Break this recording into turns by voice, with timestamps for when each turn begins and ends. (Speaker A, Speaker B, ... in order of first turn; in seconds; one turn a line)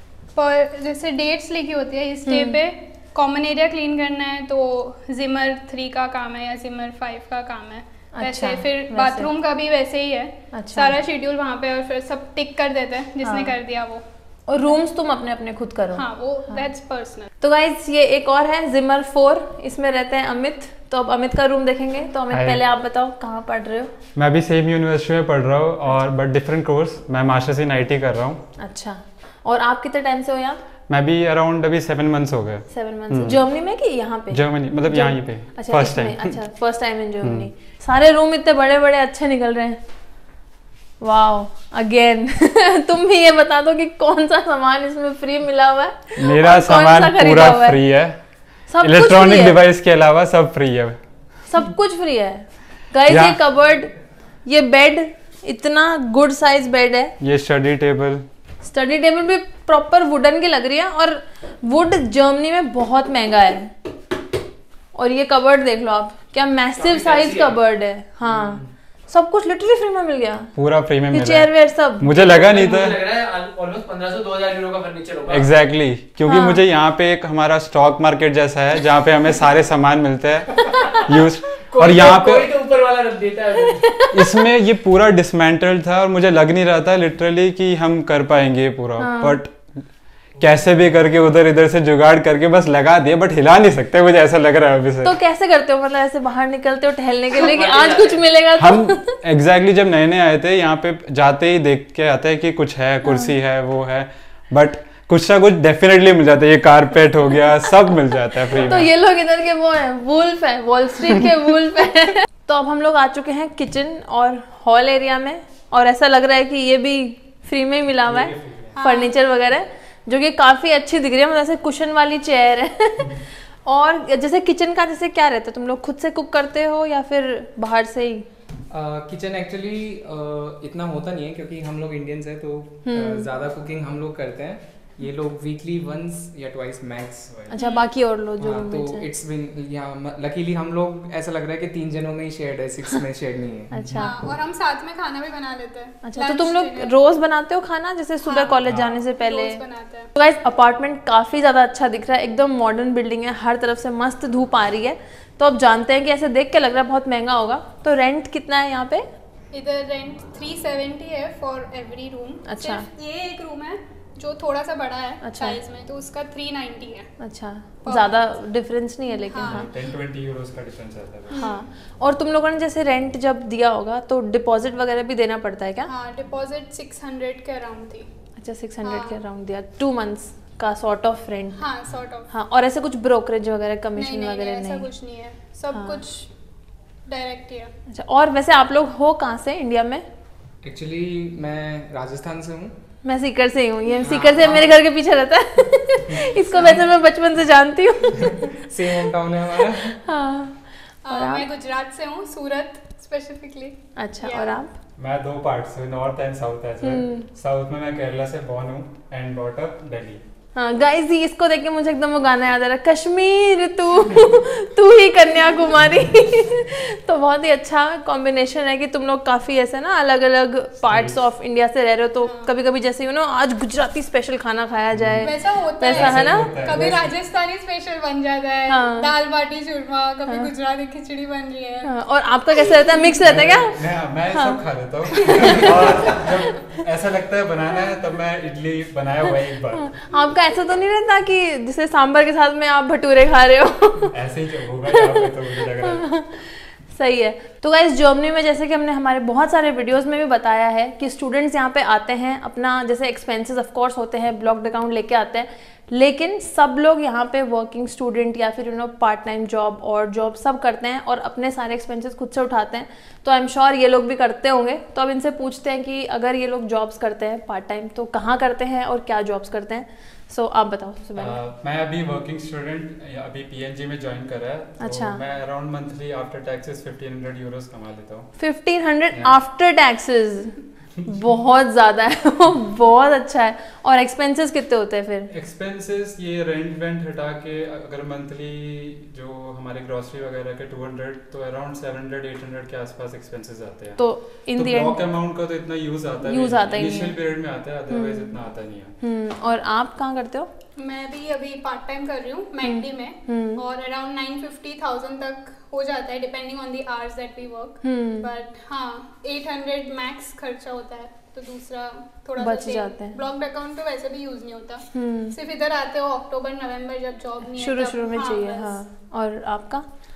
Speaker A: 0.3-14.0
Speaker B: 2.2-2.6
Speaker B: 8.2-9.3
Speaker B: 10.5-10.9
Speaker B: 13.2-13.5
Speaker B: 14.5-16.6
Speaker A: 15.9-17.3
Speaker B: 17.4-23.9
Speaker C: 22.3-22.6
Speaker C: 24.1-28.4
Speaker B: 28.6-30.6
Speaker C: 30.9-33.4
Speaker B: 32.7-39.8
Speaker C: 34.3-36.4
Speaker C: 37.2-37.5
Speaker B: 41.0-47.8
Speaker C: 46.2-48.2
Speaker B: 48.7-49.6
Speaker C: 48.8-51.0
Speaker B: 51.5-53.9
Speaker C: 53.1-53.4
Speaker B: 54.5-57.1
Speaker C: 57.2-58.2
Speaker B: 58.6-63.7
Speaker B: 64.9-70.5
Speaker C: 70.5-73.2
Speaker B: 71.1-72.2
Speaker D: 72.5-75.4
Speaker C: 75.3-82.7
Speaker B: 76.2-76.6
Speaker D: 81.8-82.0
Speaker D: 82.6-83.4
Speaker B: 83.5-84.3
Speaker C: 84.1-89.7
Speaker B: 89.0-89.4
Speaker C: 90.4-95.1
Speaker B: 95.0-99.2
Speaker C: 98.5-108.9
Speaker B: 103.0-103.3
Speaker B: 108.5-128.3
Speaker C: 118.0-118.7
Speaker A: 118.7-119.1
Speaker E: 128.7-137.3
Speaker B: 132.8-133.3
Speaker B: 137.5-139.1
Speaker A: 137.5-137.9
Speaker E: 138.4-144.1
Speaker B: 143.7-144.1
Speaker A: 143.9-146.9
Speaker B: 146.0-149.6
Speaker A: 148.2-150.1
Speaker C: 148.6-149.0
Speaker B: 150.1-159.1
Speaker A: 159.5-167.1
Speaker B: 162.5-162.8
Speaker B: 165.2-165.6
Speaker B: 167.2-169.7
Speaker A: 167.8-168.1
Speaker A: 169.3-169.7
Speaker C: 169.4-171.4
Speaker A: 171.3-171.7
Speaker B: 171.3-175.9
Speaker A: 175.8-178.1
Speaker B: 178.4-181.6
Speaker A: 178.8-179.2
Speaker A: 181.5-182.3
Speaker B: 182.3-184.9
Speaker A: 183.9-186.3
Speaker B: 185.7-186.0
Speaker A: 187.1-187.7
Speaker B: 187.9-190.0
Speaker E: 190.6-192.7
Speaker B: 193.0-199.1
Speaker E: 194.0-194.8
Speaker E: 196.4-196.9
Speaker E: 198.2-200.0
Speaker B: 199.7-201.5
Speaker A: 201.1-204.6
Speaker B: 204.0-204.7
Speaker C: 205.0-210.2
Speaker B: 206.8-207.3
Speaker B: 210.6-226.5
Speaker C: 220.8-221.2
Speaker A: 222.2-222.5
Speaker C: 224.9-225.2
Speaker A: 225.2-231.9
Speaker C: 225.9-227.1
Speaker B: 228.7-229.1
Speaker B: 231.8-233.8
Speaker C: 233.2-239.9
Speaker B: 234.3-234.6
Speaker B: 235.2-236.5
Speaker B: 239.7-244.1
Speaker C: 244.1-246.0
Speaker B: 244.9-271.4
Speaker C: 271.1-278.3
Speaker B: 274.8-275.2
Speaker B: 278.4-285.3
Speaker C: 279.1-279.4
Speaker C: 285.3-294.0
Speaker B: 294.0-295.0
Speaker C: 294.5-298.9
Speaker B: 296.2-297.2
Speaker B: 297.9-298.4
Speaker B: 299.0-300.5
Speaker A: 300.8-318.8
Speaker B: 302.6-303.6
Speaker B: 307.8-308.3
Speaker B: 312.4-313.2
Speaker B: 314.9-315.3
Speaker B: 317.6-319.9